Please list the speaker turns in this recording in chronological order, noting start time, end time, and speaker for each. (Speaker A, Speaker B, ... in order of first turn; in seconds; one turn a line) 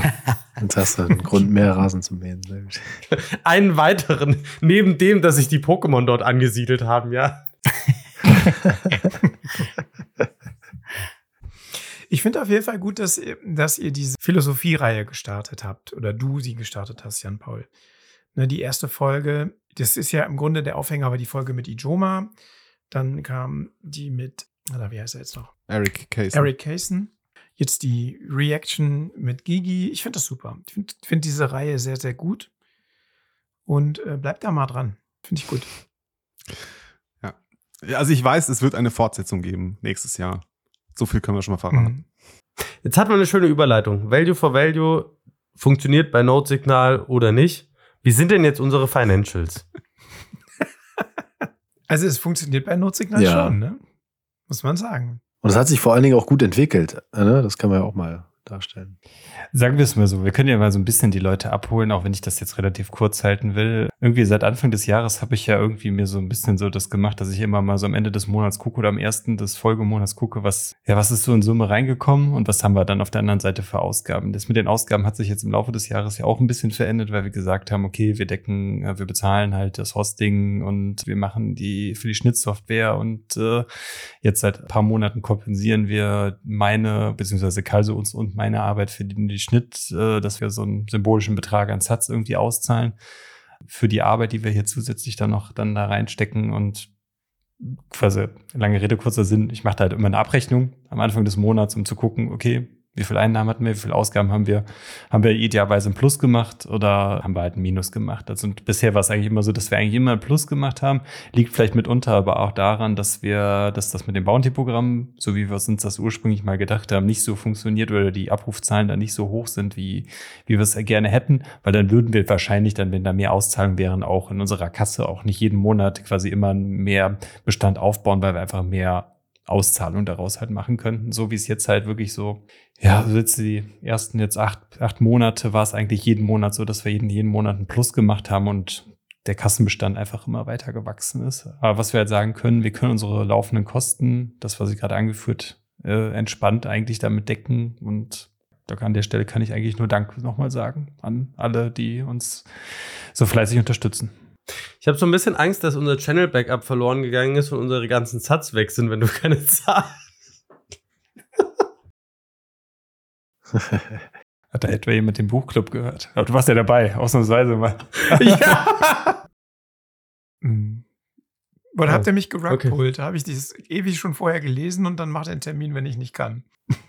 Speaker A: 0.6-2.8
Speaker B: 3.1-7.4
Speaker C: 12.1-17.7
Speaker C: 18.3-22.3
Speaker C: 22.9-25.6
Speaker D: 25.7-26.5
Speaker C: 26.3-32.5
Speaker C: 33.7-35.7
Speaker D: 37.2-42.0
Speaker C: 41.7-42.0
Speaker B: 42.8-49.6
Speaker C: 51.9-53.8
Speaker A: 53.1-53.6
Speaker C: 54.5-55.2
Speaker A: 55.4-59.0
Speaker E: 59.5-83.7
Speaker E: 84.2-93.0
Speaker E: 93.7-96.9
Speaker E: 97.6-152.5
Speaker E: 153.1-154.1
Speaker B: 154.8-160.0
Speaker E: 164.5-168.6
Speaker B: 168.1-169.2
Speaker C: 170.4-170.8
Speaker C: 171.7-176.4
Speaker B: 171.8-172.7